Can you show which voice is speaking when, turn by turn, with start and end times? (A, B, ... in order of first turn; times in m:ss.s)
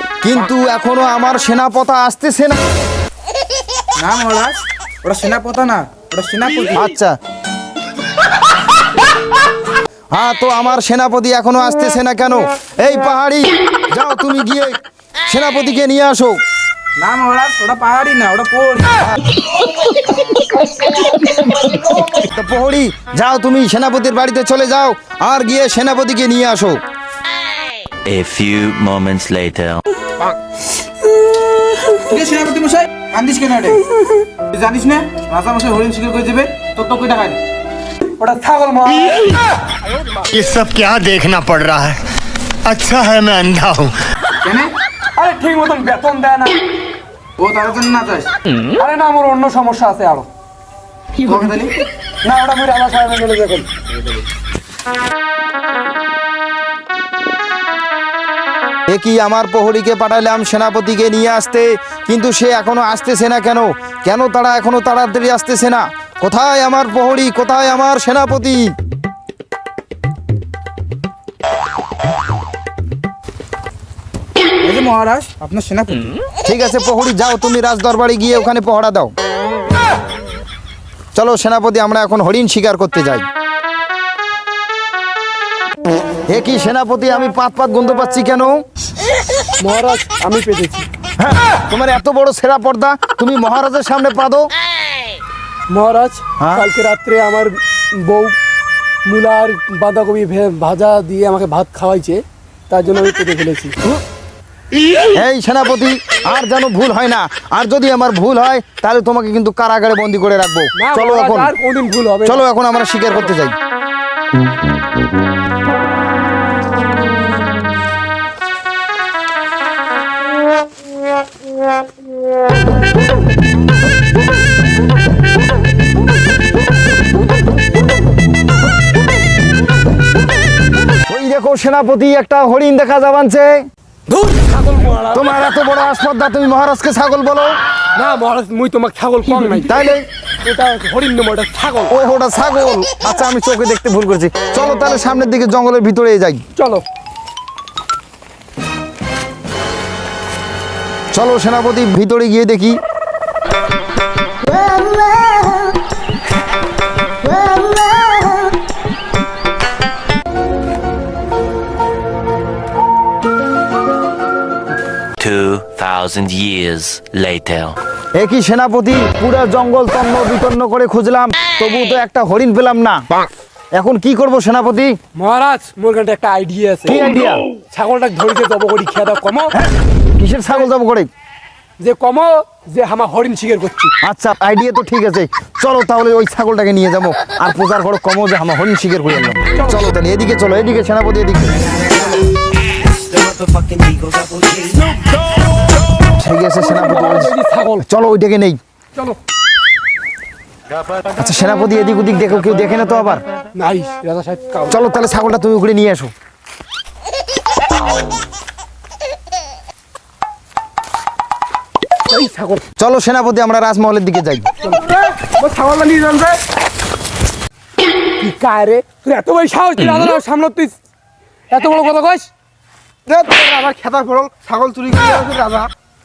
0:00.2-0:02.6 A
0:04.0-0:06.8 B
0:06.7-0:07.1 A
0:10.1-0:14.8 A
0:15.3-0:16.4 A
0:17.0-0:19.1 B
0:20.6-0:22.1 B
0:22.1-0:26.8 A
0:28.1-0:29.8 C
0:32.0-0:33.8 B
0:34.5-0:37.4 B
0:38.0-0:39.4 D
0:40.3-0:42.0 E
0:42.6-0:44.0 E
0:44.4-0:44.7 B
0:45.2-0:46.6 D
0:47.4-0:48.3 B
0:48.7-0:50.3 D
0:51.2-0:51.8 B
0:52.2-0:53.7 D
0:58.9-1:08.6 A
1:14.6-1:16.2 B
1:16.4-1:19.1 A
1:21.1-1:23.2 A
1:26.3-1:28.6 A
1:29.6-1:30.9 D
1:31.2-1:34.5 A
1:35.7-1:38.4 D
1:36.4-1:36.7 A
1:39.0-1:43.8 D
1:45.1-1:51.5 A
1:50.8-1:52.4 D
1:52.2-1:53.5 A
2:11.1-2:13.6 A
2:14.1-2:15.3 D
2:15.1-2:17.6 A
2:17.9-2:19.8 D
2:19.6-2:20.0 A
2:20.4-2:21.9 D
2:21.9-2:26.4 A
2:26.6-2:26.8 D
2:31.1-2:32.8 A
2:34.5-2:35.7 D
2:37.3-2:38.4 D
2:45.2-2:47.8 C
2:48.2-2:53.0 A
2:53.8-2:55.0 A
2:55.2-2:57.0 D
2:56.8-2:57.4 A
2:57.6-2:59.5 D
3:00.2-3:01.1 A
3:01.8-3:03.9 D
3:04.0-3:11.7 A
3:09.5-3:09.8 D
3:13.7-3:14.1 C
3:16.0-3:18.6 A
3:16.6-3:17.8 D
3:21.0-3:23.2 A
3:23.5-3:24.8 D
3:24.7-3:26.1 A
3:32.1-3:32.6 D
3:32.8-3:34.5 A
3:35.2-3:36.4 B
3:38.2-3:40.8 D
3:41.5-3:42.3 D
3:43.1-3:45.7 D